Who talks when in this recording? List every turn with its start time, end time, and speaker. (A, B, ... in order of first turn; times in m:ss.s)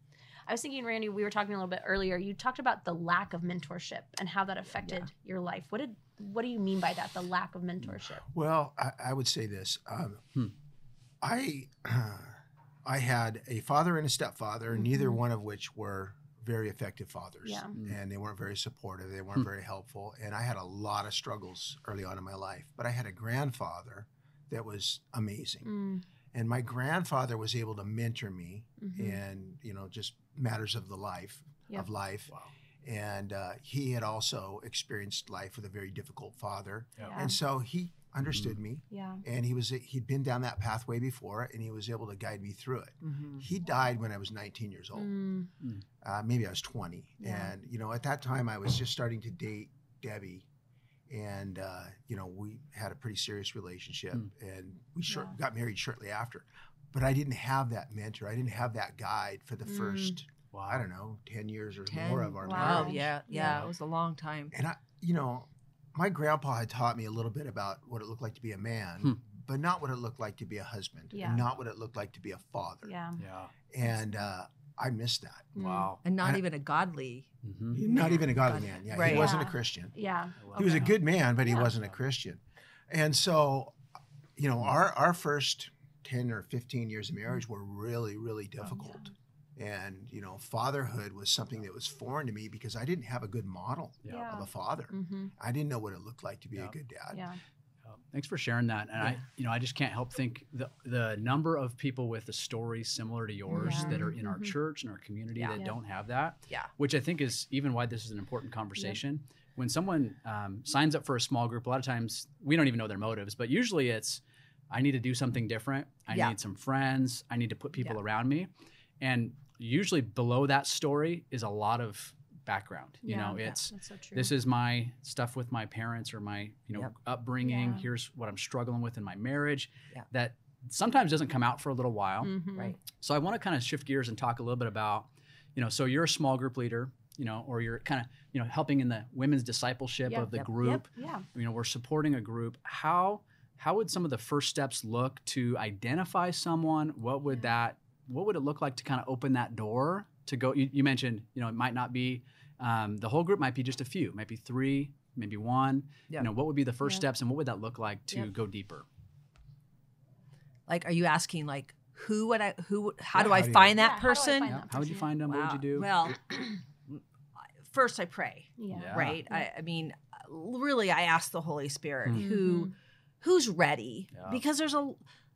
0:00.5-0:08.2 A
0:08.2-0:10.3 B
0:11.2-0:25.7 B
0:14.8-0:15.2 A
0:17.4-0:17.7 A
0:25.6-0:26.0 A
0:26.3-0:45.1 B
0:28.8-0:29.2 A
0:37.0-0:37.4 A
0:38.9-0:39.2 A
0:43.0-0:43.4 C
0:45.0-0:45.5 A
0:46.0-0:50.5 B
0:47.2-0:47.5 A
0:51.1-1:03.0 B
0:55.1-0:55.4 A
0:59.7-1:00.2 A
1:00.5-1:00.8 D
1:01.9-1:04.5 C
1:02.4-1:03.7 A
1:02.5-1:03.7 D
1:04.5-1:13.0 B
1:11.1-1:11.4 A
1:12.8-1:13.2 A
1:13.2-1:13.5 D
1:13.7-1:15.6 B
1:13.8-1:14.2 A
1:15.6-1:16.0 A
1:15.6-1:16.0 D
1:16.0-1:19.4 C
1:17.4-1:17.8 D
1:17.7-1:19.9 B
1:19.0-1:21.7 A
1:20.4-1:21.0 D
1:20.5-1:23.8 B
1:24.4-1:37.3 B
1:28.6-1:29.1 A
1:34.1-1:35.3 A
1:37.1-1:37.4 A
1:37.8-1:58.5 D
1:43.5-1:44.1 C
1:43.5-1:44.6 A
1:45.4-1:45.6 C
1:59.0-2:12.3 D
2:03.0-2:04.3 A
2:07.4-2:07.9 A
2:12.2-2:12.8 A
2:12.9-2:38.9 D
2:20.1-2:21.2 A
2:40.7-2:44.6 C
2:43.1-2:43.8 B
2:43.8-2:45.1 A
2:44.5-2:45.9 D
2:45.2-2:55.0 C
2:48.6-2:49.5 A
2:48.7-2:49.2 D
2:52.2-2:52.7 A
2:54.1-2:54.4 D